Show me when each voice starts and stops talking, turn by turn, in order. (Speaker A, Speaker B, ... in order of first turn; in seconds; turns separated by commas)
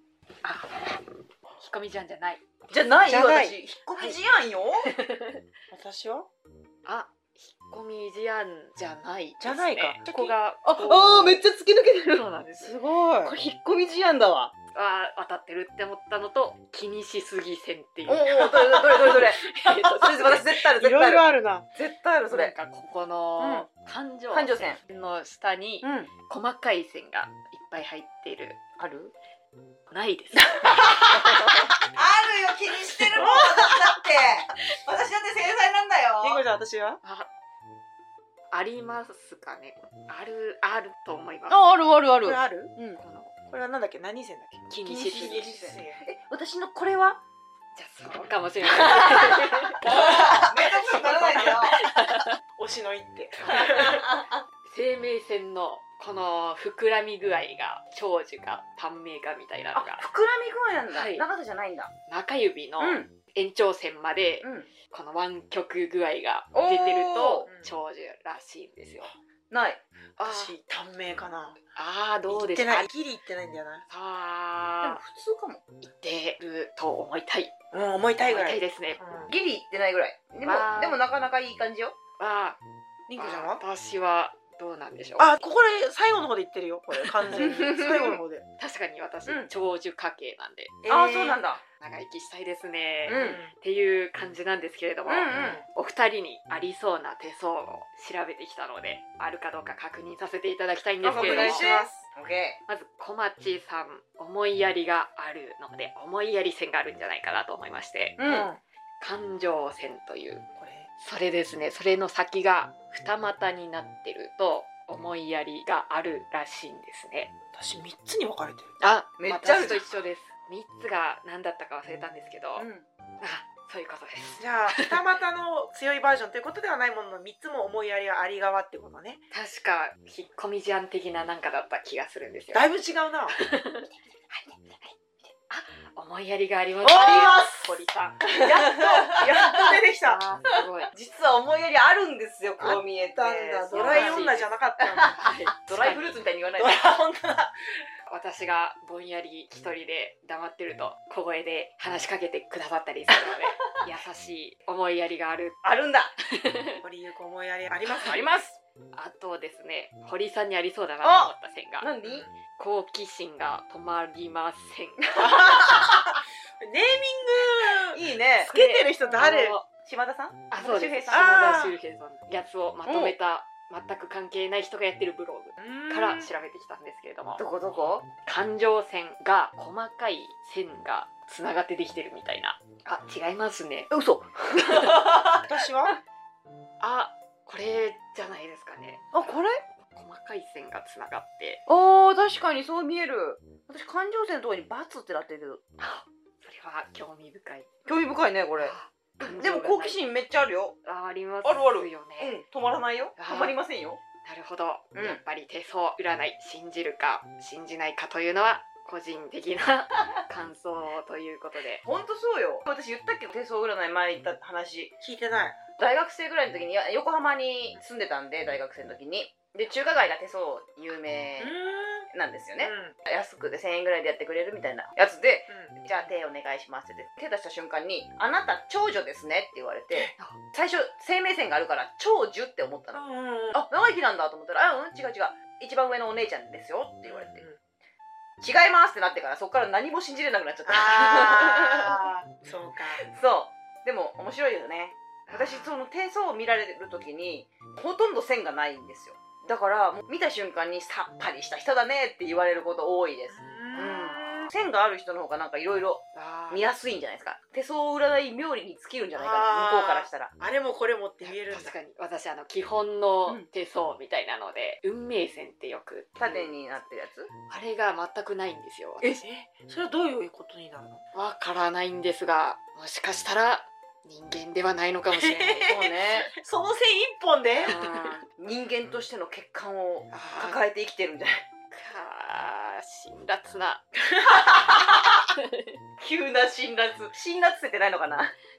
Speaker A: 0.4-1.0, Speaker A: 1.6-2.5, Speaker B: 2.7-4.9, Speaker C: 3.1-4.1, Speaker A: 4.9-5.4, Speaker C: 5.7-6.3, Speaker A: 6.9-11.4, Speaker C: 9.4-10.3, Speaker B: 10.6-14.5, Speaker A: 12.1-12.8, Speaker C: 12.9-13.3, Speaker A: 14.7-18.8, Speaker B: 18.1-22.5, Speaker C: 18.3-21.7, Speaker A: 19.5-20.1, Speaker A: 22.3-28.6, Speaker B: 23.4-23.7, Speaker B: 24.3-24.8, Speaker B: 25.8-26.1, Speaker B: 28.8-29.1, Speaker A: 29.9-31.7, Speaker B: 30.4-36.4, Speaker C: 33.1-34.0, Speaker C: 36.2-37.0, Speaker A: 37.0-37.3, Speaker A: 38.5-41.6, Speaker B: 41.5-43.0, Speaker C: 42.2-42.8, Speaker A: 43.0-43.4, Speaker C: 43.5-46.0, Speaker A: 44.7-45.6, Speaker B: 44.9-47.2, Speaker A: 47.8-52.4, Speaker B: 48.7-51.9, Speaker C: 49.8-54.1, Speaker B: 53.5-54.4, Speaker A: 54.7-60.1, Speaker B: 59.7-61.9, Speaker A: 60.9-61.2, Speaker A: 62.1-69.1, Speaker B: 62.8-63.1, Speaker B: 64.4-64.7, Speaker B: 66.5-67.5, Speaker B: 69.5-69.8, Speaker A: 70.2-70.5, Speaker C: 70.2-71.6, Speaker A: 71.8-72.9, Speaker C: 72.3-73.8, Speaker A: 73.9-75.0, Speaker B: 74.8-75.6, Speaker A: 75.9-77.5, Speaker C: 77.7-79.3, Speaker A: 78.3-79.0, Speaker B: 79.3-82.0, Speaker A: 80.5-81.0, Speaker A: 82.2-82.6, Speaker C: 83.1-83.6, Speaker A: 83.2-85.4, Speaker C: 85.2-88.5, Speaker B: 87.3-88.2, Speaker A: 88.6-90.8, Speaker C: 90.8-91.4, Speaker B: 90.9-91.6, Speaker A: 91.8-101.7, Speaker B: 93.1-93.4, Speaker C: 93.1-93.5, Speaker B: 95.1-95.6, Speaker C: 95.3-95.6, Speaker B: 101.0-102.6, Speaker C: 101.1-102.1, Speaker A: 102.7-108.2, Speaker B: 108.2-108.5, Speaker C: 108.2-108.6, Speaker A: 109.0-110.5, Speaker C: 110.6-110.9, Speaker A: 111.0-117.3, Speaker C: 117.5-118.7, Speaker A: 118.8-122.7, Speaker B: 119.2-119.9, Speaker B: 122.6-122.8, Speaker A: 123.2-125.0, Speaker C: 124.4-129.2, Speaker A: 129.3-132.7, Speaker C: 132.5-133.4, Speaker A: 133.3-135.0, Speaker A: 135.5-138.3, Speaker C: 136.8-137.7, Speaker B: 137.1-137.4, Speaker B: 138.3-139.8, Speaker C: 138.3-140.2, Speaker A: 140.0-140.9, Speaker B: 140.6-146.9, Speaker C: 142.6-145.2, Speaker A: 143.7-144.5, Speaker A: 145.1-146.2, Speaker C: 146.6-147.5, Speaker A: 148.1-155.6, Speaker B: 155.6-156.1, Speaker A: 156.2-156.8, Speaker C: 156.8-158.3, Speaker B: 157.9-158.6, Speaker A: 158.9-161.9, Speaker B: 161.0-162.3, Speaker C: 162.0-162.3, Speaker A: 162.6-165.6, Speaker C: 165.2-169.6, Speaker B: 165.2-166.0, Speaker B: 167.9-168.5, Speaker A: 168.4-169.7, Speaker B: 169.8-171.4, Speaker A: 170.5-177.4, Speaker C: 171.1-171.8, Speaker B: 172.9-173.1, Speaker C: 175.6-176.3, Speaker B: 177.4-178.1, Speaker A: 178.2-183.9, Speaker B: 183.9-186.0, Speaker C: 185.3-186.0, Speaker A: 186.8-189.4, Speaker B: 189.1-189.6, Speaker A: 189.9-191.6, Speaker B: 191.7-195.6, Speaker A: 195.8-197.7, Speaker B: 197.9-200.8, Speaker A: 198.6-200.0, Speaker A: 200.8-202.4, Speaker B: 201.4-204.0, Speaker A: 203.2-203.6, Speaker A: 204.2-211.8, Speaker B: 204.9-205.2, Speaker B: 211.8-214.9, Speaker C: 215.0-215.6, Speaker B: 215.8-221.6, Speaker C: 221.4-222.1, Speaker B: 222.1-237.4, Speaker C: 222.6-222.9, Speaker C: 232.9-233.6, Speaker C: 237.1-237.6, Speaker B: 238.4-242.1, Speaker C: 240.7-243.0, Speaker B: 243.1-260.3, Speaker A: 245.3-245.7, Speaker C: 253.3-254.5, Speaker A: 253.7-254.4, Speaker A: 256.1-256.6, Speaker C: 259.2-261.7, Speaker A: 261.2-266.5, Speaker B: 266.2-267.3, Speaker A: 267.5-269.1, Speaker C: 269.2-271.0, Speaker A: 271.1-275.7, Speaker C: 275.1-277.8, Speaker B: 275.7-276.3, Speaker A: 277.6-278.2, Speaker B: 277.6-281.5, Speaker A: 280.1-280.6, Speaker A: 281.7-283.9, Speaker C: 284.1-284.7, Speaker B: 284.3-285.3, Speaker A: 285.4-285.8, Speaker B: 286.0-288.4